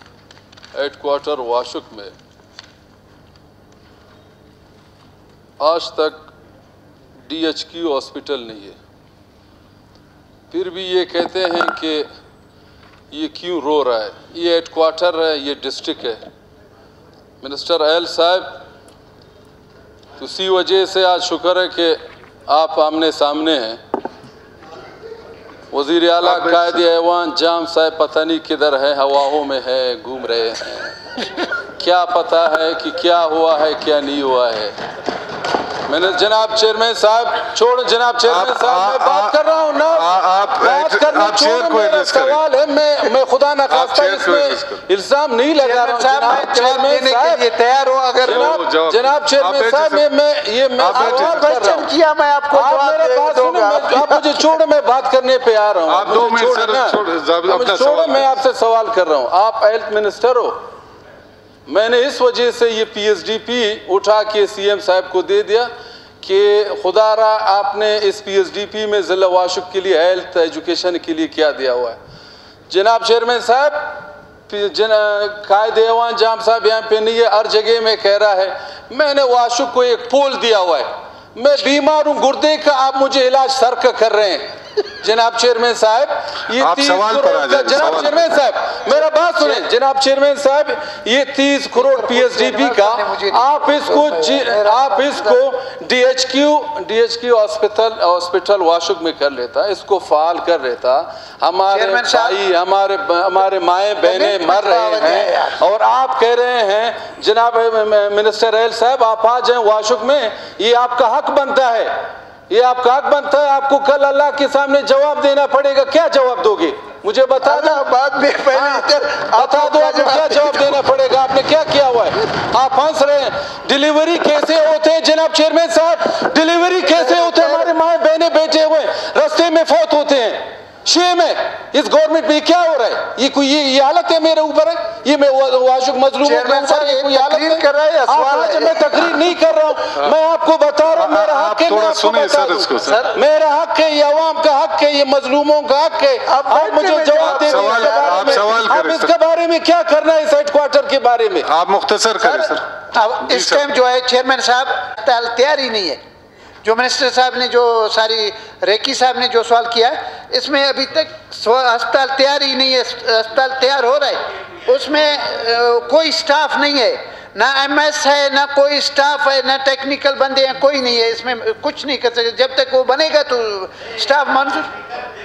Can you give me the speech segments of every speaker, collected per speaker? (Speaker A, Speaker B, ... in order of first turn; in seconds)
Speaker A: 0.7-2.1, 5.6-6.3, 7.2-8.8, 10.5-12.1, 13.1-16.2, 17.4-18.6, 20.2-23.8, 25.7-31.0, 31.8-34.8, 35.9-47.5, 48.2-51.9, 52.5-60.6, 61.7-65.7, 66.2-72.0, 72.7-111.9, 112.5-117.8, 118.5-151.5
Speaker B: 26.2-26.8, 38.3-42.4, 43.7-44.8, 48.2-50.1, 50.8-51.5, 55.9-58.3, 86.5-88.3, 140.9-143.1, 147.2-149.1, 151.4-152.7, 153.3-153.7
Speaker C: 45.6-48.6, 50.9-54.6, 91.7-95.4, 101.7-102.4, 104.0-105.6, 117.4-120.8, 126.9-127.7, 136.2-138.9, 142.9-143.2, 146.3-148.5, 152.2-156.0, 156.6-174.7